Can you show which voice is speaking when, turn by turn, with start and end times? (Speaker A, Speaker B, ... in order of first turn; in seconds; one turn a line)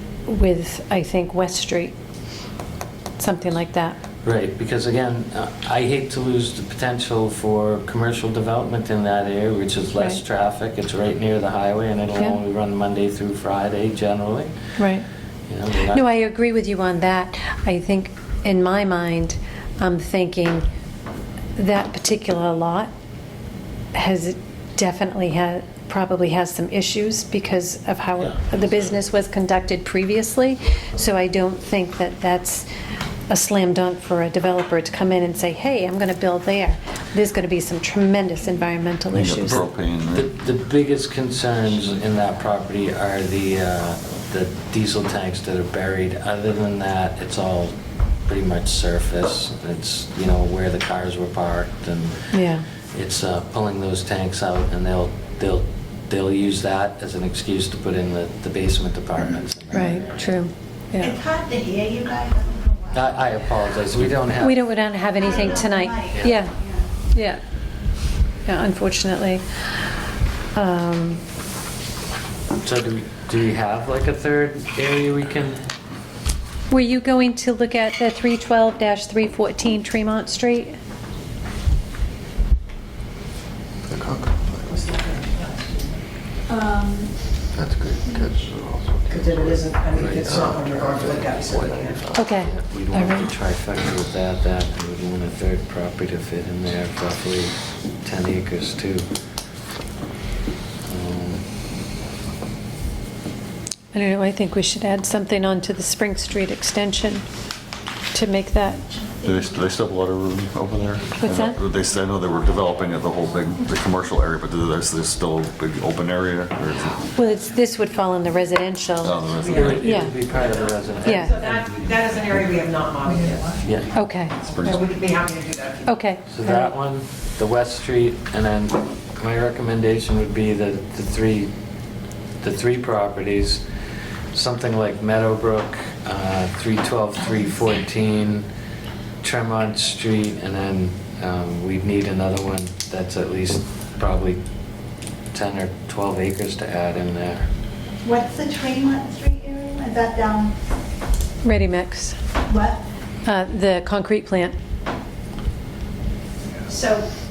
Speaker A: 0.3-1.9
Speaker A: 3.2-4.0
Speaker B: 4.2-14.5
Speaker A: 14.8-15.1
Speaker B: 15.5-16.1
Speaker A: 15.9-20.6
Speaker A: 21.6-22.9
Speaker A: 23.9-32.7
Speaker A: 33.3-39.6
Speaker C: 39.1-40.3
Speaker B: 39.4-52.4
Speaker A: 52.3-52.6
Speaker B: 52.9-60.2
Speaker A: 59.7-61.2
Speaker D: 61.0-63.1
Speaker B: 62.9-64.7
Speaker A: 64.4-66.5
Speaker D: 65.2-66.8
Speaker B: 66.1-66.4
Speaker A: 67.1-67.4
Speaker A: 68.5-69.4
Speaker A: 70.5-71.2
Speaker B: 72.6-75.6
Speaker A: 76.7-80.8
Speaker E: 83.9-84.9
Speaker F: 84.7-86.0
Speaker D: 86.5-87.1
Speaker E: 87.5-92.4
Speaker F: 89.1-92.1
Speaker A: 92.1-93.3
Speaker B: 92.3-99.1
Speaker B: 100.8-101.4
Speaker A: 103.9-107.3
Speaker A: 108.1-108.8
Speaker C: 109.2-117.1
Speaker A: 111.2-111.6
Speaker A: 117.2-120.2
Speaker C: 119.0-120.2
Speaker B: 119.5-121.8
Speaker F: 120.3-123.6
Speaker A: 121.0-121.4
Speaker B: 123.6-124.0
Speaker A: 123.9-124.4
Speaker C: 124.4-124.9
Speaker F: 124.6-126.0
Speaker A: 125.9-126.7
Speaker B: 126.3-131.5
Speaker B: 132.4-133.6
Speaker B: 134.3-138.5
Speaker B: 139.2-144.4
Speaker B: 145.3-147.5
Speaker D: 148.0-150.6
Speaker A: 151.4-152.2
Speaker D: 152.5-152.8
Speaker A: 153.2-154.6
Speaker F: 156.7-157.1